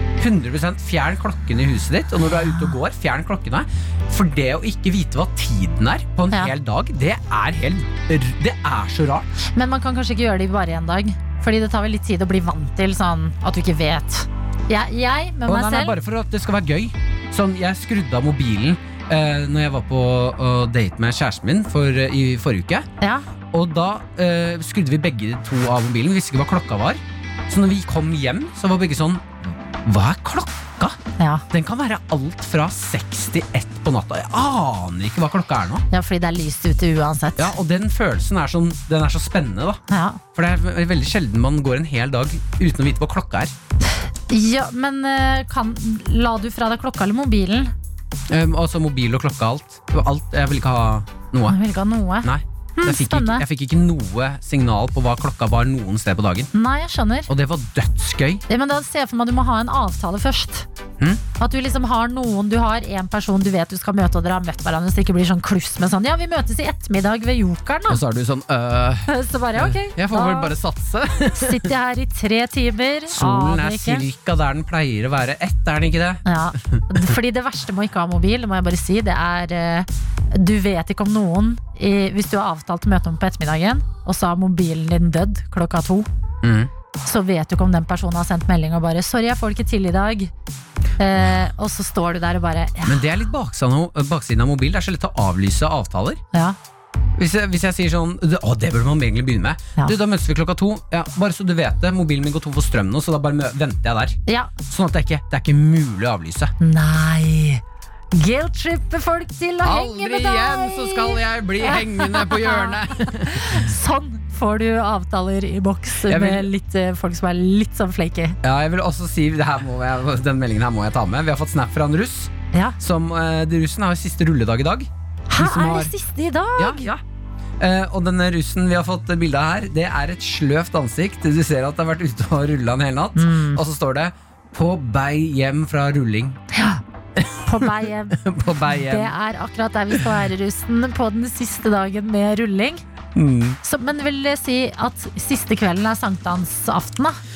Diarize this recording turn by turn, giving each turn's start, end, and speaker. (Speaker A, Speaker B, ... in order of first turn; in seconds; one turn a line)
Speaker A: 0.2-9.3
Speaker B: 9.5-16.0
Speaker A: 15.4-22.9
Speaker B: 23.0-23.3
Speaker A: 23.5-31.0
Speaker B: 31.2-31.4
Speaker A: 31.5-35.8
Speaker B: 35.9-37.5
Speaker A: 37.4-39.8
Speaker B: 39.9-40.2
Speaker A: 40.3-43.5
Speaker B: 44.3-47.7
Speaker A: 48.3-51.6
Speaker B: 51.5-53.4
Speaker A: 52.2-56.5
Speaker B: 56.5-57.3
Speaker A: 57.3-58.4
Speaker B: 58.5-60.7
Speaker B: 61.4-68.0
Speaker A: 67.9-71.7
Speaker B: 69.1-70.5
Speaker B: 71.3-74.0
Speaker A: 73.1-77.0
Speaker B: 76.2-86.1
Speaker A: 86.4-86.7
Speaker B: 87.0-90.3
Speaker B: 91.0-93.0
Speaker A: 92.8-96.2
Speaker A: 97.2-106.5
Speaker B: 104.3-104.5
Speaker B: 106.6-118.4
Speaker A: 109.6-113.7
Speaker A: 116.0-116.5
Speaker A: 118.4-125.9
Speaker B: 122.5-122.8
Speaker B: 125.3-126.9
Speaker A: 126.6-127.0
Speaker A: 127.6-136.4
Speaker B: 133.2-133.6
Speaker B: 136.5-136.8
Speaker A: 137.2-139.1
Speaker B: 137.4-142.8
Speaker A: 143.1-143.6
Speaker B: 143.6-147.2